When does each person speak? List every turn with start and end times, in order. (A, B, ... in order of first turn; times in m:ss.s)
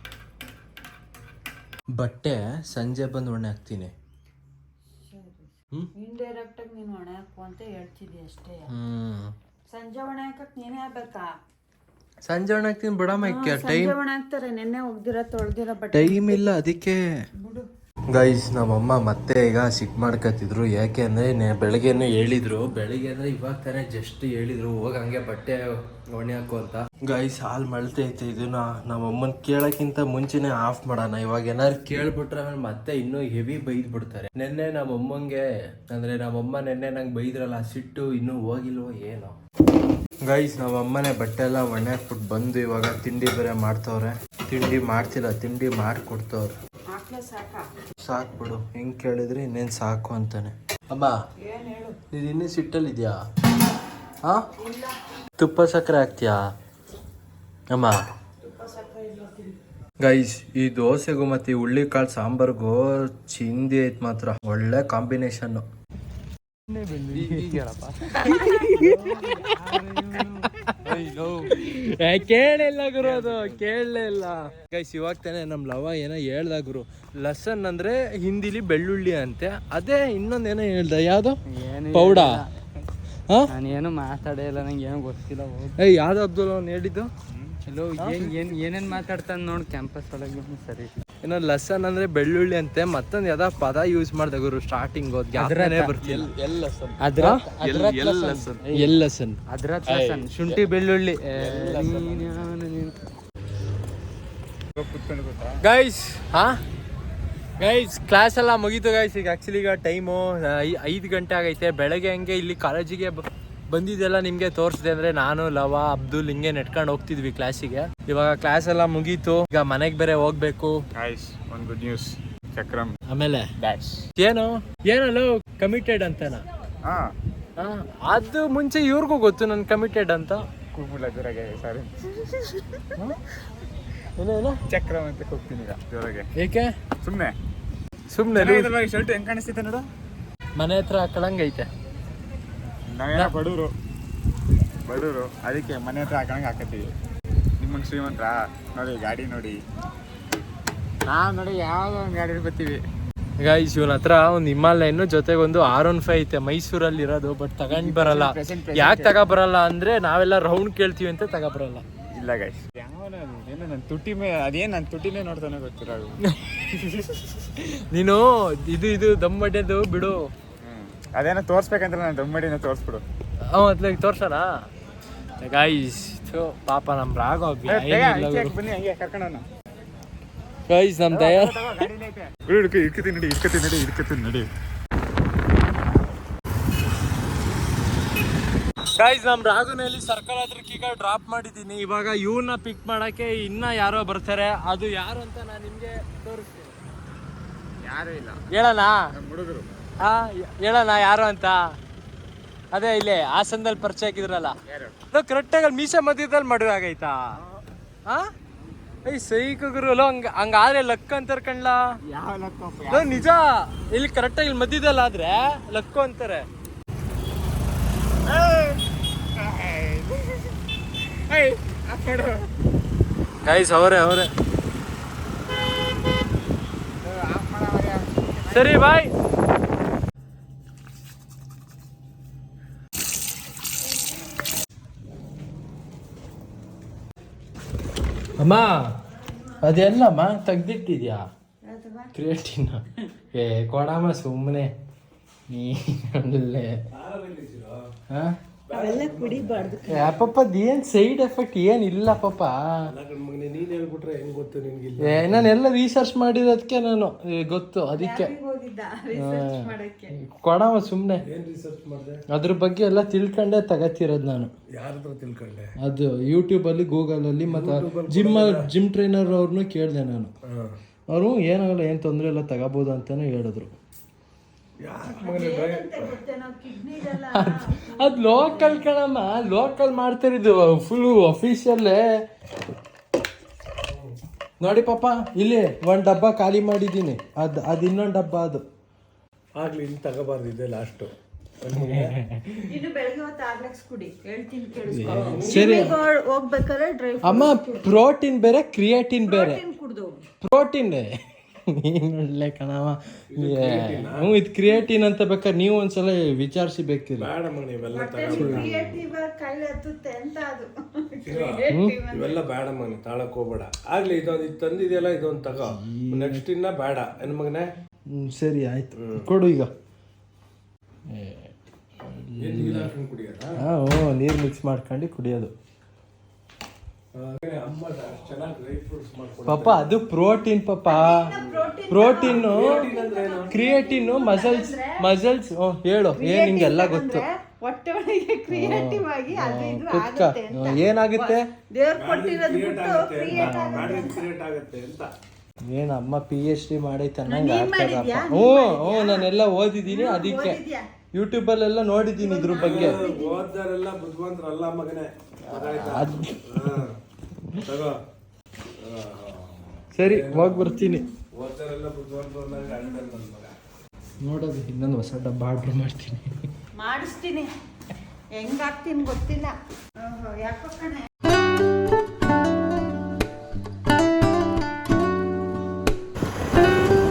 0:02.0-0:03.9 A
0:04.9-0:08.7 B
0:08.7-0:09.3 A
0:09.7-0:11.3 B
0:12.2-0:14.0 A
0:13.2-0:16.6 B
0:15.9-0:17.0 A
0:17.4-0:17.7 B
0:18.1-0:39.4 A
0:40.2-0:46.6 A
0:46.9-0:47.7 B
0:48.0-0:51.2 A
0:51.4-0:52.0 B
0:52.1-0:53.2 A
0:54.6-0:55.0 B
0:55.4-0:56.4 A
0:57.7-0:58.0 A
0:58.4-0:59.5 B
1:00.0-1:05.7 A
1:06.7-1:07.5 A
1:07.1-1:11.6 C
1:08.2-1:09.4 A
1:10.2-1:21.4 A
1:13.0-1:13.6 C
1:21.5-1:22.5 C
1:21.9-1:22.3 A
1:23.5-1:25.8 C
1:25.8-1:27.1 A
1:27.3-1:27.6 D
1:27.7-1:30.9 C
1:28.0-1:28.3 A
1:31.2-1:36.3 A
1:35.4-1:35.9 C
1:36.1-1:37.0 D
1:37.0-1:39.0 C
1:37.2-1:38.2 A
1:37.6-1:38.6 D
1:38.7-1:39.4 A
1:39.5-1:43.0 C
1:39.9-1:40.6 D
1:41.4-1:42.1 D
1:44.8-1:45.6 D
1:45.6-1:46.6 A
1:47.6-2:00.8 A
2:01.0-2:03.0 D
2:03.1-2:03.5 A
2:03.6-2:04.1 D
2:04.2-2:06.4 A
2:07.6-2:10.5 A
2:10.7-2:12.7 D
2:13.0-2:13.2 A
2:14.2-2:14.6 A
2:14.7-2:16.3 D
2:16.4-2:16.7 A
2:17.0-2:17.3 D
2:18.1-2:18.8 A
2:18.3-2:19.9 D
2:20.6-2:21.7 A
2:22.9-2:23.7 D
2:24.9-2:27.0 D
2:27.6-2:29.6 D
2:31.1-2:32.8 D
2:33.4-2:41.8 A
2:37.7-2:39.2 D
2:42.2-2:46.2 D
2:46.2-2:50.2 A
2:50.6-2:53.0 D
2:53.5-2:54.5 A
2:55.4-2:58.6 A
2:57.7-2:59.4 D
3:00.7-3:01.9 A
3:01.1-3:04.5 D
3:09.0-3:16.7 A
3:17.8-3:18.5 D
3:18.5-3:19.1 A
3:19.1-3:19.7 D
3:20.0-3:21.6 A
3:22.7-3:24.6 A
3:24.7-3:24.9 D
3:25.1-3:27.4 A
3:29.1-3:31.8 A
3:32.1-3:33.2 D
3:32.9-3:36.4 A
3:38.2-3:40.6 D
3:41.3-3:42.5 D
3:43.4-3:44.3 A
3:47.0-3:48.8 D
3:48.5-3:49.1 A
3:58.4-3:58.9 A
3:59.6-4:01.3 A
4:01.6-4:02.1 B
4:02.2-4:04.7 A
4:05.5-4:06.8 A
4:06.9-4:07.8 E
4:08.1-4:08.4 A
4:08.7-4:10.3 E
4:08.7-4:10.2 B
4:09.9-4:12.8 A
4:12.9-4:15.5 E
4:15.0-4:18.3 A
4:18.0-4:20.2 B
4:19.2-4:21.2 A
4:21.2-4:22.2 E
4:22.3-4:24.5 A
4:24.7-4:25.7 E
4:25.8-4:30.3 A
4:27.4-4:28.7 E
4:30.5-4:30.8 E
4:31.1-4:33.7 A
4:34.8-4:36.1 E
4:35.0-4:38.9 B
4:37.1-4:42.0 A
4:44.6-4:48.6 A
4:49.6-4:52.2 E
4:51.7-4:52.6 A
4:52.7-4:58.0 B
4:54.9-4:56.0 A
4:55.0-4:55.9 E
4:57.2-4:59.6 A
4:59.3-5:00.2 B
5:00.4-5:01.1 A
5:01.7-5:07.3 A
5:03.3-5:04.3 E
5:07.2-5:09.0 E
5:07.9-5:12.4 B
5:08.3-5:08.7 A
5:11.2-5:17.7 E
5:11.7-5:12.0 A
5:15.6-5:16.4 A
5:18.1-5:19.7 A
5:19.0-5:19.3 E
5:21.1-5:22.9 A
5:22.4-5:23.5 E
5:23.6-5:25.5 A
5:27.2-5:29.9 E
5:29.5-5:31.3 A
5:30.9-5:35.0 B
5:31.9-5:32.9 A
5:32.3-5:33.5 E
5:33.5-5:37.2 A
5:36.2-5:44.2 B
5:38.5-5:41.4 A
5:42.0-5:45.1 E
5:43.3-5:44.0 A
5:45.7-5:50.6 A
5:47.2-5:49.3 B
5:49.9-5:50.8 B
5:51.1-5:53.0 A
5:52.2-5:53.5 B
5:52.6-5:56.9 E
5:55.5-5:56.8 A
5:57.6-5:58.0 E
5:58.8-6:00.7 E
5:59.9-6:01.0 A
6:00.6-6:01.1 B
6:01.3-6:03.6 E
6:04.2-6:06.5 A
6:06.8-6:07.5 B
6:08.4-6:11.1 B